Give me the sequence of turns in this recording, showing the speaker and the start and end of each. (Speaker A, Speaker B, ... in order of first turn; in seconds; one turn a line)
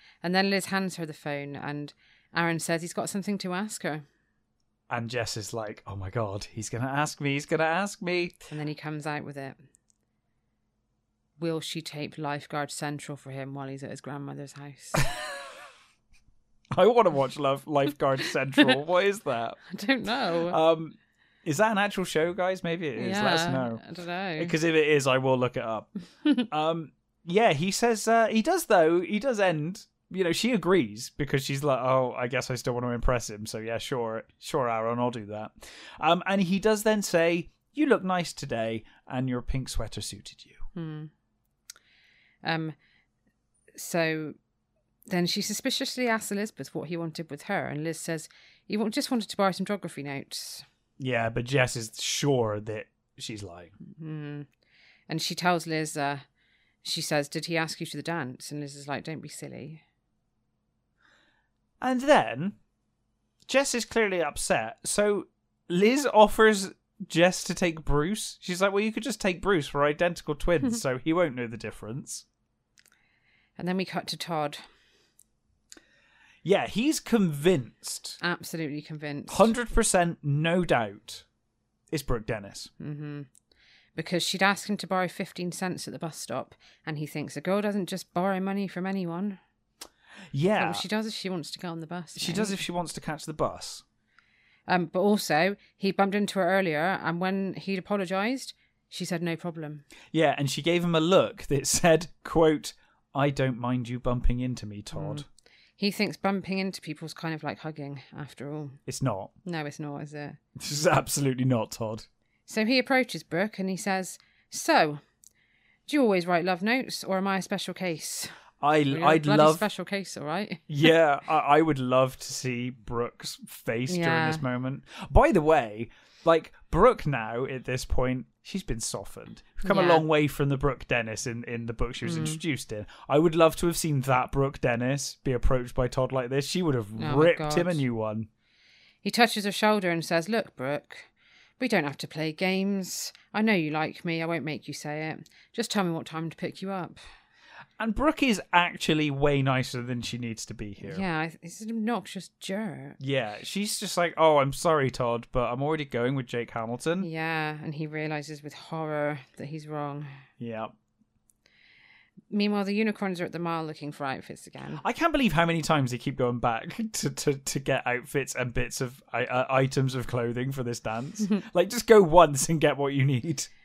Speaker A: 0.2-4.0
Speaker B: 4.9-8.4
Speaker A: 8.5-9.6
Speaker A: 11.4-15.1
Speaker B: 15.0-15.3
Speaker B: 16.7-19.6
Speaker A: 19.7-20.6
Speaker B: 20.5-23.8
Speaker A: 23.0-24.5
Speaker B: 24.4-25.9
Speaker B: 26.5-40.6
Speaker A: 40.8-41.1
Speaker A: 42.4-42.8
Speaker A: 43.7-44.4
Speaker A: 45.1-50.6
Speaker B: 51.0-53.7
Speaker A: 53.9-54.5
Speaker A: 55.1-56.2
Speaker A: 56.8-59.8
Speaker B: 61.8-62.6
Speaker B: 63.5-72.2
Speaker A: 73.6-74.6
Speaker B: 76.4-78.2
Speaker A: 78.2-79.5
Speaker B: 79.3-81.2
Speaker B: 81.9-82.7
Speaker A: 82.8-83.3
Speaker A: 84.0-89.4
Speaker B: 90.3-90.8
Speaker A: 90.6-92.7
Speaker B: 92.2-93.8
Speaker A: 94.7-99.9
Speaker B: 100.1-105.2
Speaker A: 104.9-105.2
Speaker A: 105.8-108.8
Speaker B: 108.9-109.3
Speaker A: 109.5-110.4
Speaker B: 110.6-112.1
Speaker A: 112.5-115.0
Speaker A: 115.9-118.3
Speaker B: 118.6-119.7
Speaker A: 118.9-120.6
Speaker B: 120.7-138.3
Speaker A: 123.9-124.4
Speaker A: 129.7-130.0
Speaker A: 132.0-132.4
Speaker A: 137.0-137.8
Speaker A: 139.0-141.1
Speaker A: 141.6-147.0
Speaker B: 147.8-151.0
Speaker A: 150.8-153.0
Speaker B: 153.0-157.1
Speaker A: 157.0-160.1
Speaker B: 160.4-160.7
Speaker A: 162.3-164.8
Speaker B: 164.8-173.5